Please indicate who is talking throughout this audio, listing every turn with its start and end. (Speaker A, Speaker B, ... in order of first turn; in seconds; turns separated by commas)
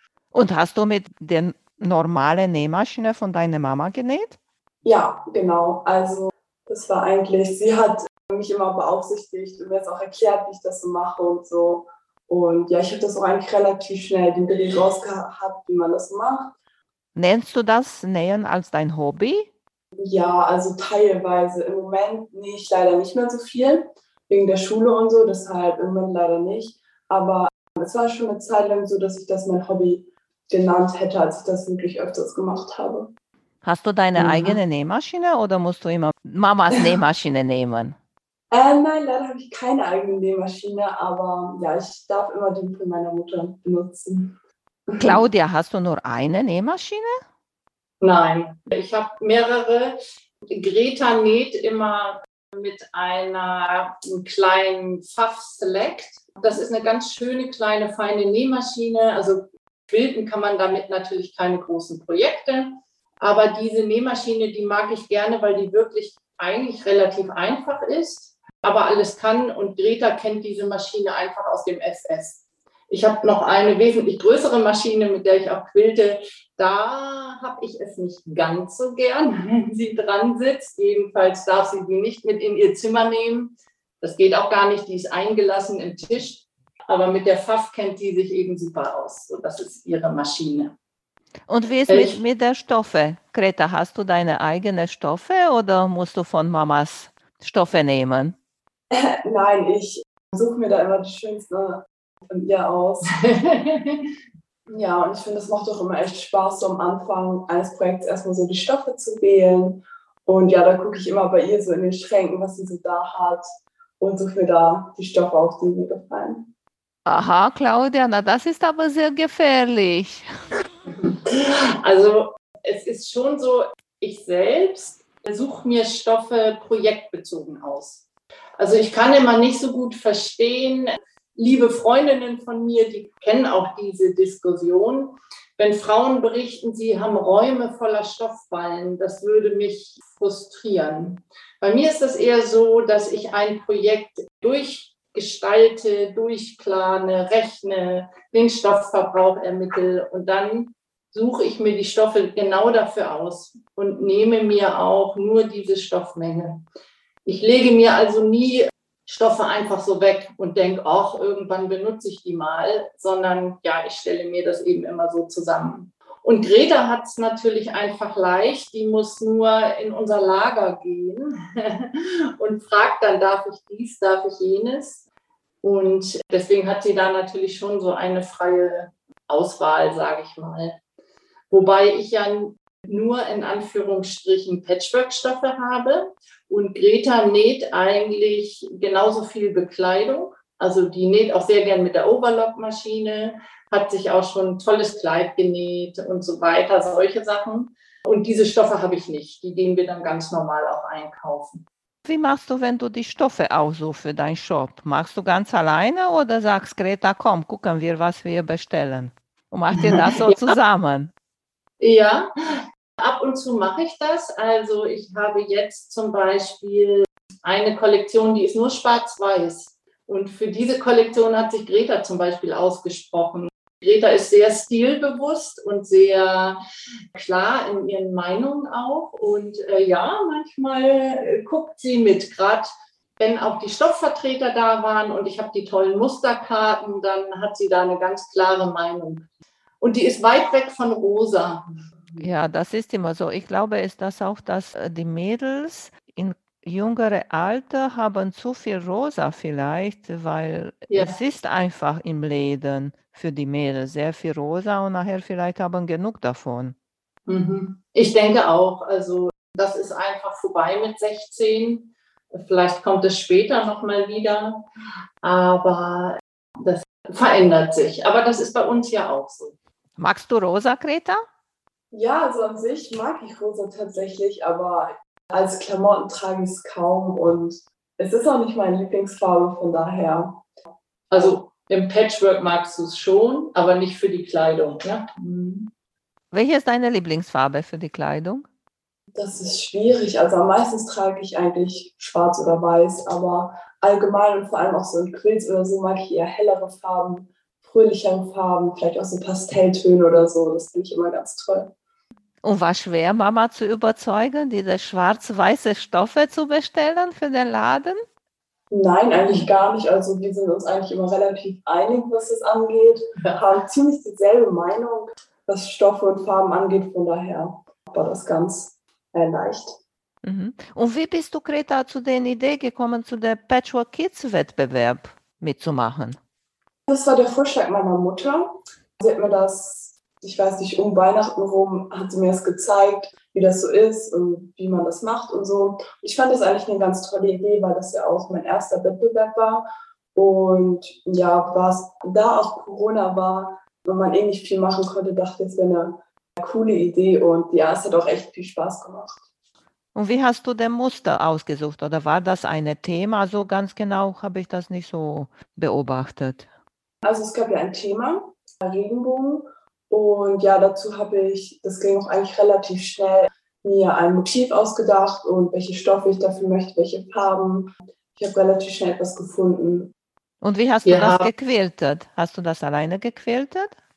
Speaker A: 0.3-4.4, Speaker B: 4.8-16.5, Speaker A: 17.1-19.5, Speaker B: 20.0-33.1, Speaker A: 33.6-37.9, Speaker B: 34.2-34.5, Speaker B: 38.5-44.4, Speaker B: 44.9-45.2, Speaker A: 45.0-47.2, Speaker C: 48.0-50.0, Speaker C: 50.5-90.7, Speaker A: 91.5-98.3, Speaker C: 91.9-92.2, Speaker B: 98.9-103.2, Speaker C: 103.1-104.1, Speaker B: 104.7-113.5, Speaker B: 114.0-116.5, Speaker A: 117.0-120.3, Speaker C: 121.0-128.0, Speaker C: 128.6-156.6, Speaker C: 157.2-175.1, Speaker C: 175.6-180.8, Speaker C: 181.5-201.6, Speaker A: 202.0-211.1, Speaker C: 209.8-210.5, Speaker C: 211.8-226.6, Speaker C: 227.1-239.3, Speaker C: 239.8-242.2, Speaker A: 242.2-256.7, Speaker C: 250.9-251.2, Speaker C: 257.3-264.6, Speaker C: 265.2-269.6, Speaker A: 270.0-271.2, Speaker B: 271.9-280.4, Speaker C: 281.1-285.7, Speaker A: 286.3-288.5, Speaker B: 289.1-301.7, Speaker A: 302.4-308.0, Speaker B: 308.7-319.8, Speaker A: 320.2-326.2, Speaker B: 326.9-349.2, Speaker A: 349.9-356.5, Speaker B: 357.0-369.9, Speaker A: 370.4-373.7, Speaker C: 370.8-371.3